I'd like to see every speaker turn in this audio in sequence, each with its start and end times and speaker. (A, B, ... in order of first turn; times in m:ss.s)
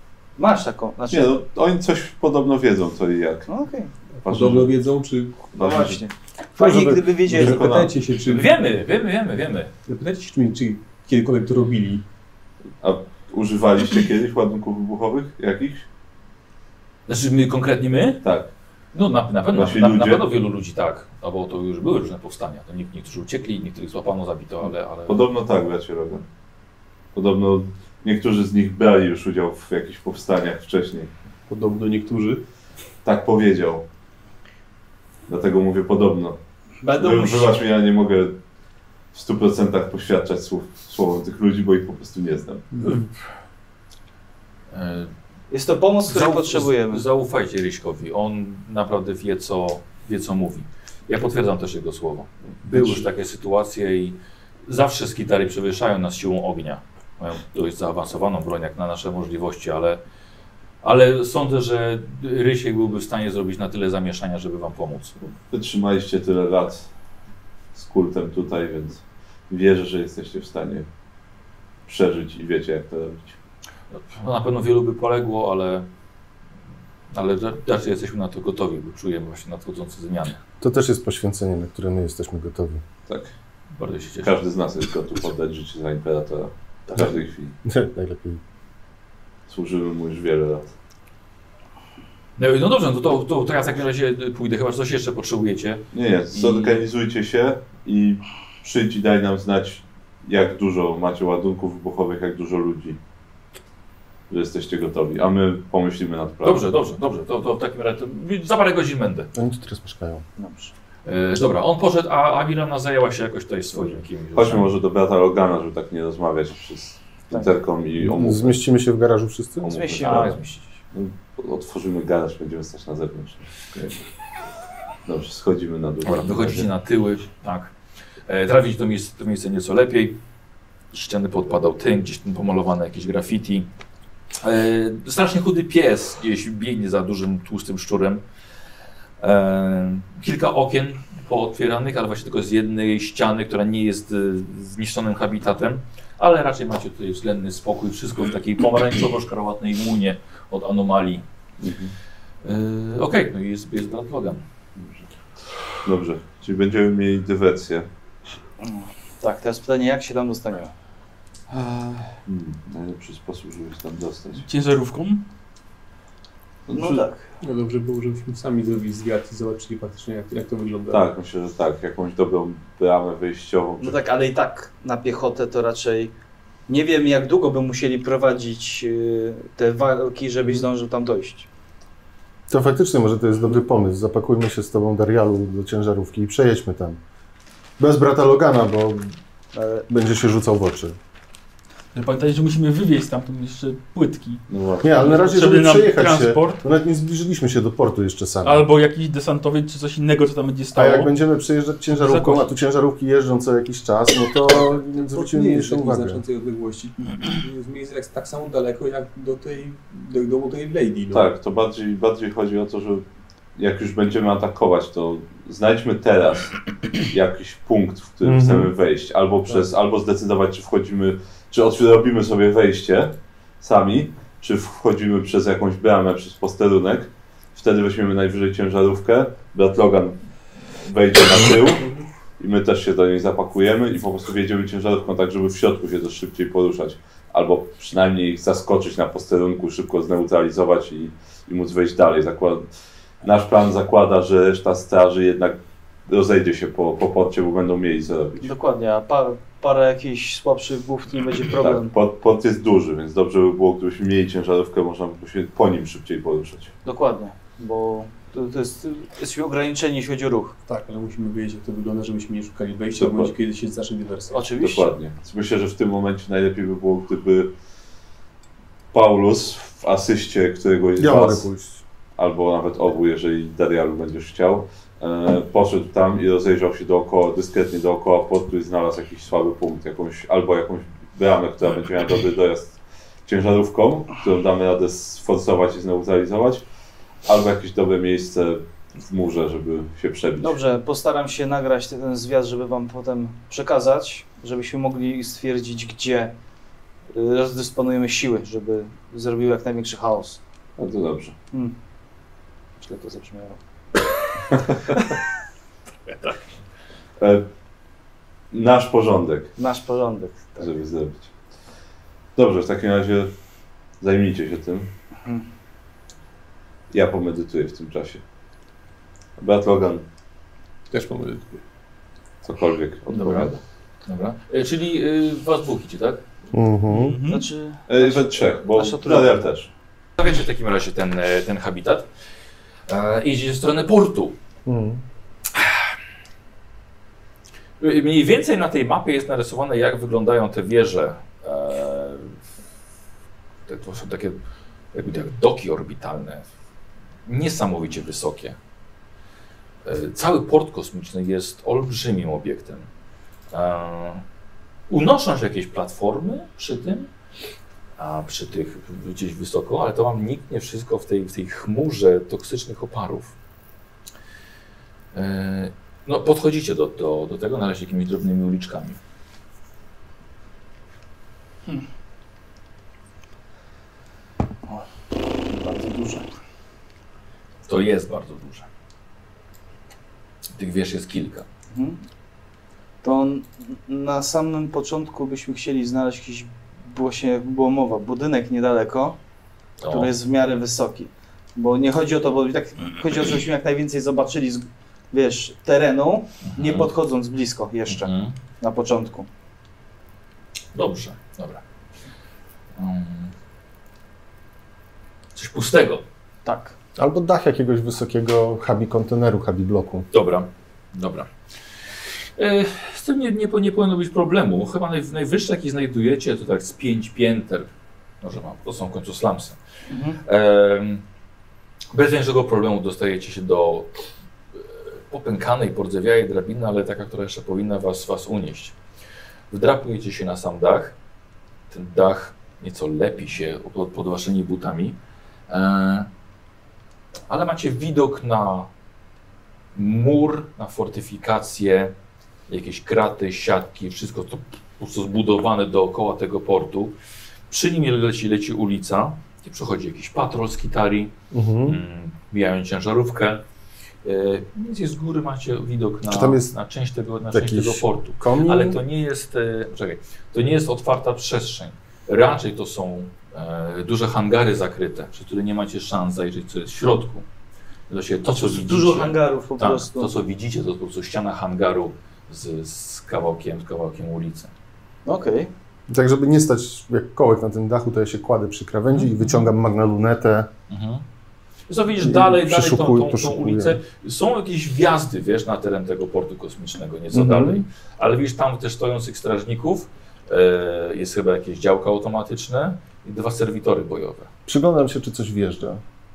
0:00.4-0:01.4 A
0:01.1-0:03.5 B
0:03.5-0:03.9 A
0:04.2-0:05.5 C
0:04.2-0:04.8 B
0:05.5-0:06.0 B
0:05.6-0:07.6 A
0:06.6-0:07.1 D
0:07.2-0:08.0 B
0:07.3-0:08.6 C
0:08.3-0:09.7 E
0:09.9-0:12.0 C
0:12.8-0:15.9 B
0:17.1-0:18.2 E
0:18.2-0:18.5 B
0:18.9-0:25.2 E
0:19.5-0:20.3 B
0:25.1-0:26.2 B
0:27.1-0:31.1 B
0:31.5-0:32.4 C
0:33.0-0:33.8 B
0:35.3-0:36.4 B
0:36.8-0:37.6 A
0:37.0-0:38.4 B
0:39.1-0:42.9 B
0:44.7-0:45.1 E
0:45.5-0:47.0 A
0:46.1-1:00.0 E
0:52.7-0:53.0 B
1:00.8-1:05.2 E
1:05.2-1:06.9 B
1:07.7-1:10.9 B
1:11.9-1:13.4 B
1:13.9-1:15.9 E
1:17.1-1:20.4 E
1:20.6-1:22.8 D
1:23.1-1:23.3 B
1:23.8-1:24.4 E
1:24.2-1:27.6 B
1:27.6-1:28.4 D
1:29.5-1:30.7 B
1:32.4-1:36.8 E
1:35.9-1:43.0 B
1:44.3-1:46.7 B
1:46.4-1:49.3 E
1:49.3-1:50.2 D
1:50.4-1:50.7 A
1:51.1-1:54.7 E
1:53.8-1:58.6 B
1:58.0-1:59.8 D
1:59.6-2:04.0 B
1:59.7-2:00.6 A
2:00.0-2:00.6 E
2:05.1-2:06.7 B
2:06.0-2:07.7 E
2:08.3-2:10.2 E
2:10.9-2:13.7 E
2:14.4-2:18.2 E
2:19.2-2:31.2 E
2:31.6-2:31.9 B
2:32.4-2:34.4 E
2:34.8-2:35.1 B
2:35.8-2:37.9 B
2:38.6-2:40.7 A
2:41.5-2:44.5 B
2:44.4-2:45.3 F
2:46.7-2:47.1 B
2:46.7-2:47.3 A
2:47.4-2:51.1 C
2:50.9-2:54.0 B
2:53.8-2:56.1 A
2:56.7-3:01.5 A
3:02.5-3:07.0 D
3:07.8-3:09.2 D
3:09.5-3:09.9 A
3:09.9-3:11.0 D
3:11.9-3:16.6 F
3:14.5-3:15.1 B
3:14.8-3:18.6 D
3:18.4-3:21.1 F
3:20.7-3:26.2 D
3:21.9-3:22.5 F
3:24.5-3:31.3 C
3:31.1-3:33.0 B
3:33.6-3:36.6 B
3:37.1-3:50.2 B
3:38.2-3:38.7 D
3:50.8-3:51.8 B
3:52.4-4:02.7 B
4:03.2-4:08.5 B
4:08.4-4:11.9 A
4:11.5-4:16.7 B
4:16.8-4:20.6 A
4:20.7-4:24.5 C
4:23.0-4:23.3 B
4:24.3-4:24.9 A
4:24.6-4:27.5 B
4:28.9-4:31.5 B
4:31.0-4:31.8 D
4:32.2-4:46.6 B
4:47.2-4:50.6 B
4:50.4-4:56.3 A
4:57.1-5:00.4 A
5:00.8-5:01.4 B
5:02.8-5:03.6 A
5:07.2-5:07.5 B
5:08.5-5:09.6 B
5:09.6-5:10.7 A
5:10.6-5:11.3 B
5:12.4-5:13.3 B
5:14.0-5:14.9 B
5:16.9-5:18.2 B
5:19.4-5:20.0 B
5:20.9-5:21.6 C
5:22.4-5:23.6 B
5:23.2-5:23.4 E
5:24.1-5:26.2 E
5:26.5-5:27.2 D
5:26.9-5:27.5 F
5:27.2-5:29.5 A
5:27.9-5:29.7 B
5:30.2-5:32.1 E
5:32.9-5:34.4 E
5:34.7-5:35.0 D
5:37.8-5:42.4 E
5:43.7-5:44.4 E
5:44.9-5:46.4 E
5:47.3-5:48.6 E
5:49.8-5:52.9 E
5:53.5-5:54.2 E
5:54.9-5:57.1 E
5:58.0-6:03.3 E
6:05.1-6:09.0 E
6:15.4-6:16.3 A
6:17.7-6:18.7 E
6:20.6-6:21.5 E
6:21.7-6:22.0 A
6:23.0-6:29.2 A
6:29.8-6:30.1 E
6:29.9-6:39.3 A
6:36.4-6:36.9 E
6:37.9-6:38.3 E
6:40.7-6:41.6 E
6:42.8-6:43.3 E
6:45.4-6:46.0 E
6:46.4-6:46.8 A
6:47.0-6:50.1 D
6:50.1-6:51.3 E
6:52.4-6:57.7 E
6:58.2-6:59.6 E
6:59.9-7:00.2 A
7:00.2-7:01.0 E
7:01.9-7:04.0 E
7:04.6-7:08.8 E
7:09.5-7:11.0 E
7:11.7-7:15.0 E
7:15.5-7:16.1 E
7:17.3-7:18.7 E
7:19.8-7:21.9 E
7:22.5-7:27.0 E
7:27.5-7:31.1 E
7:31.3-7:31.8 D
7:31.7-7:33.4 E
7:34.0-7:47.3 E
7:36.1-7:36.5 D
7:37.3-7:38.8 D
7:47.9-7:54.5 E
7:48.3-7:50.1 A
7:55.0-7:55.5 A
7:55.9-8:00.5 D
7:58.9-7:59.5 E
8:00.7-8:01.0 E
8:01.7-8:14.3 E
8:02.0-8:03.8 D
8:07.1-8:07.6 D
8:14.5-8:15.8 D